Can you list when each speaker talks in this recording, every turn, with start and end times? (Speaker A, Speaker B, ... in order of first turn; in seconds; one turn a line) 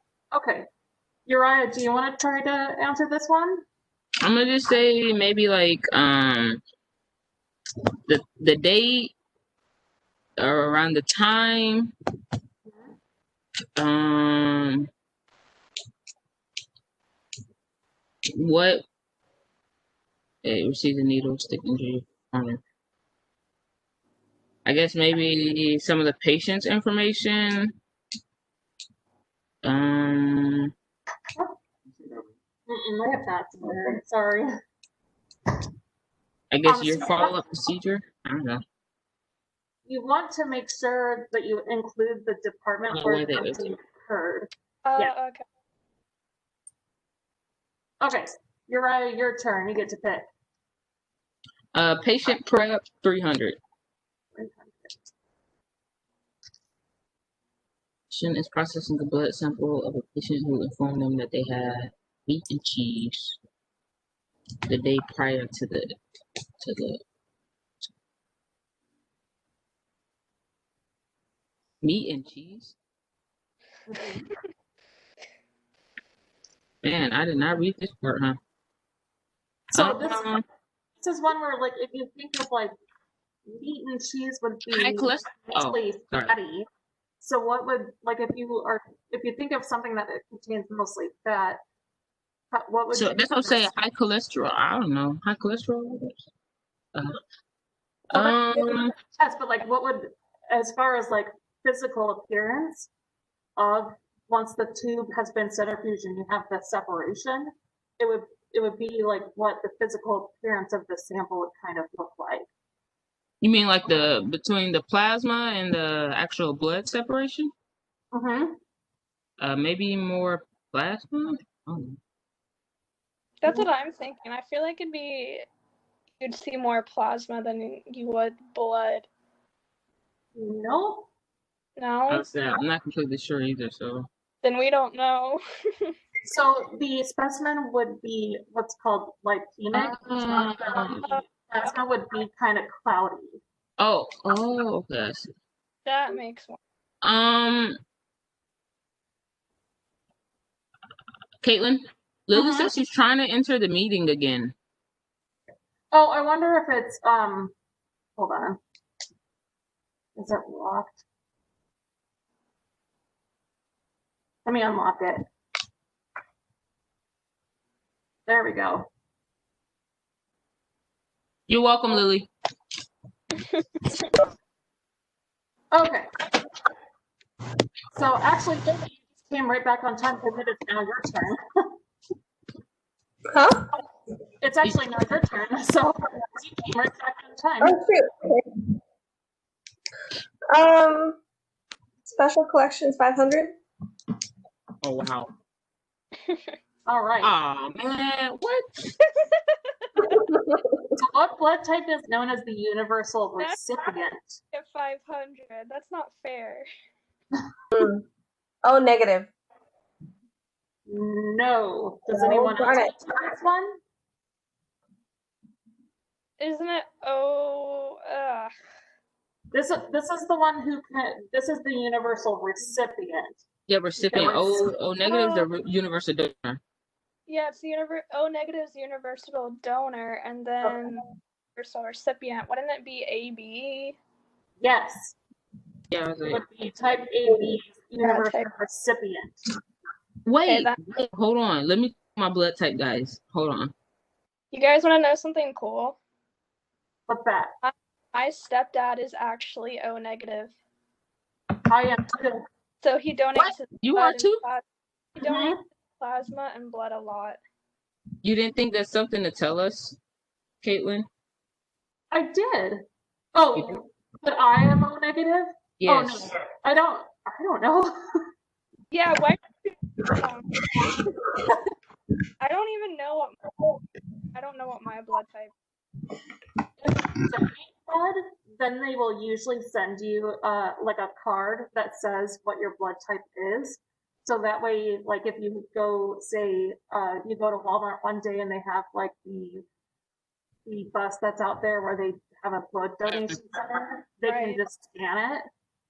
Speaker A: 0.3-0.7
Speaker A: 1.2-3.6
Speaker B: 4.2-6.6
Speaker B: 8.1-9.1
Speaker B: 10.4-11.9
Speaker A: 12.6-12.9
Speaker B: 13.8-14.9
Speaker B: 18.4-18.8
Speaker B: 20.4-22.6
Speaker B: 24.6-27.7
Speaker B: 29.6-30.7
Speaker A: 32.7-34.5
Speaker B: 36.5-38.6
Speaker A: 36.6-37.4
Speaker A: 39.9-45.1
Speaker B: 42.9-43.7
Speaker C: 44.8-45.4
Speaker A: 48.0-50.3
Speaker B: 51.7-53.6
Speaker A: 54.3-55.0
Speaker B: 58.1-63.4
Speaker B: 64.7-65.9
Speaker B: 66.6-67.0
Speaker B: 71.8-72.8
Speaker A: 73.9-74.3
Speaker B: 76.8-78.4
Speaker A: 79.7-80.3
Speaker B: 79.7-80.4
Speaker A: 81.0-82.7
Speaker A: 83.5-86.7
Speaker B: 84.7-86.3
Speaker A: 87.2-91.6
Speaker A: 92.5-93.7
Speaker B: 92.9-96.1
Speaker B: 98.1-98.9
Speaker A: 98.1-102.9
Speaker A: 103.6-112.5
Speaker B: 113.4-117.5
Speaker A: 113.8-114.1
Speaker A: 118.1-118.5
Speaker B: 119.4-122.0
Speaker C: 123.4-125.5
Speaker C: 126.2-129.1
Speaker A: 130.3-131.1
Speaker C: 131.8-132.3
Speaker B: 132.1-134.1
Speaker C: 134.4-135.9
Speaker A: 136.2-143.4
Speaker B: 139.7-141.1
Speaker B: 143.8-145.3
Speaker C: 145.8-146.6
Speaker B: 147.0-147.8
Speaker B: 151.4-154.5
Speaker A: 152.3-152.7
Speaker A: 155.9-157.5
Speaker A: 158.2-158.6
Speaker A: 160.2-161.0
Speaker A: 164.4-165.2
Speaker A: 168.3-168.9
Speaker B: 171.5-172.3
Speaker A: 175.7-176.1
Speaker A: 177.9-181.4
Speaker D: 183.3-183.6
Speaker A: 184.4-187.8
Speaker D: 187.6-188.5
Speaker D: 190.5-191.2
Speaker D: 192.1-193.6
Speaker B: 194.8-195.3
Speaker C: 196.2-196.5
Speaker A: 196.8-197.3
Speaker B: 197.2-198.6
Speaker C: 199.2-200.0
Speaker D: 200.1-200.8
Speaker A: 201.0-204.4
Speaker C: 204.5-206.7
Speaker D: 207.7-208.0
Speaker D: 208.6-209.3
Speaker A: 210.9-213.8
Speaker D: 212.1-212.9
Speaker C: 216.4-218.5
Speaker A: 219.5-223.4
Speaker B: 223.7-226.6
Speaker A: 224.0-224.7
Speaker C: 225.1-225.5
Speaker C: 227.3-231.0
Speaker C: 231.5-234.0
Speaker A: 234.6-235.2
Speaker B: 235.9-236.4
Speaker A: 236.3-239.4
Speaker C: 238.0-238.5
Speaker B: 240.2-243.7
Speaker C: 240.4-240.7
Speaker C: 244.5-246.0
Speaker A: 247.1-247.5
Speaker C: 247.6-250.5
Speaker A: 251.7-252.4
Speaker C: 252.8-254.6
Speaker B: 253.3-254.4
Speaker C: 255.1-257.4
Speaker A: 255.2-255.6
Speaker B: 258.2-260.0
Speaker B: 260.6-261.1
Speaker A: 262.1-267.9
Speaker B: 265.8-266.3
Speaker C: 268.9-270.5
Speaker C: 272.4-273.4
Speaker C: 274.3-275.5
Speaker A: 276.8-289.6
Speaker A: 290.6-295.4
Speaker C: 294.2-294.6